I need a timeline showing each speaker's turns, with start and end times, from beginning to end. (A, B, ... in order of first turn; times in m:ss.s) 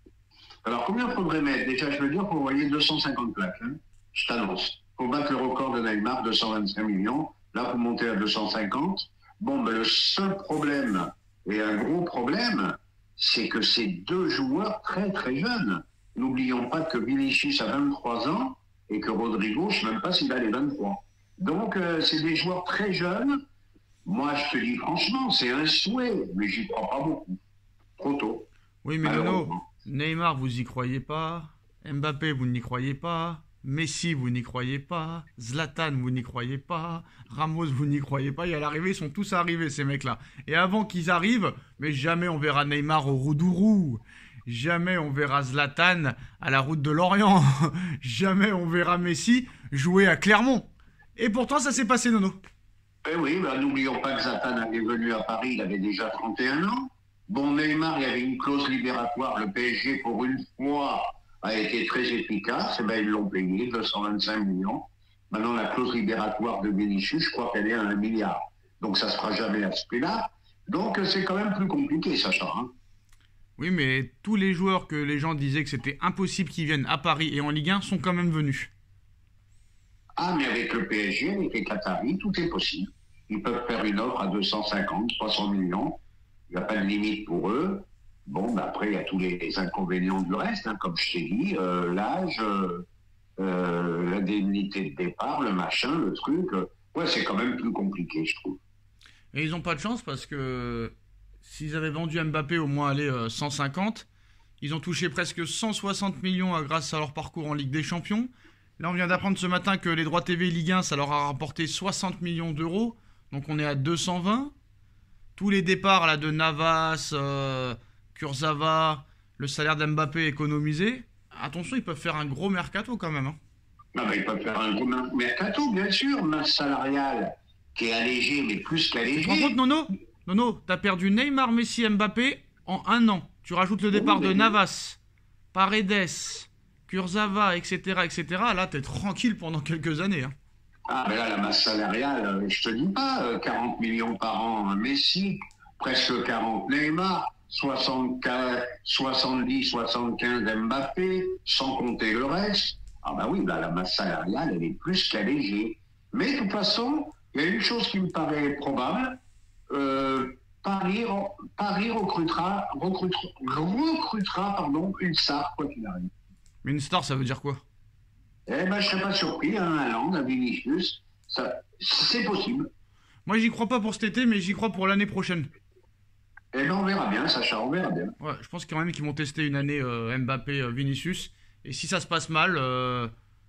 0:00.6-0:23.4 A
0:24.0-0:27.4 A
0:28.0-0:28.5 A
0:28.8-0:52.4 B
0:29.0-0:29.6 A
0:53.0-1:12.7 A
1:13.6-1:18.7 B
1:20.2-1:26.0 A
1:26.5-1:32.8 A
1:33.4-1:38.6 A
1:39.3-1:44.1 B
1:44.6-1:54.5 B
1:55.4-2:03.4 B
2:03.9-2:09.6 A
2:09.1-2:15.0 B
2:13.9-2:14.5 A
2:15.5-2:20.3 B
2:20.9-2:39.2 A
2:39.7-2:46.1 A
2:46.6-2:47.6 B
2:48.5-2:52.7 A
2:53.2-2:55.5 B
2:56.5-2:58.1 A
2:58.2-3:03.1 B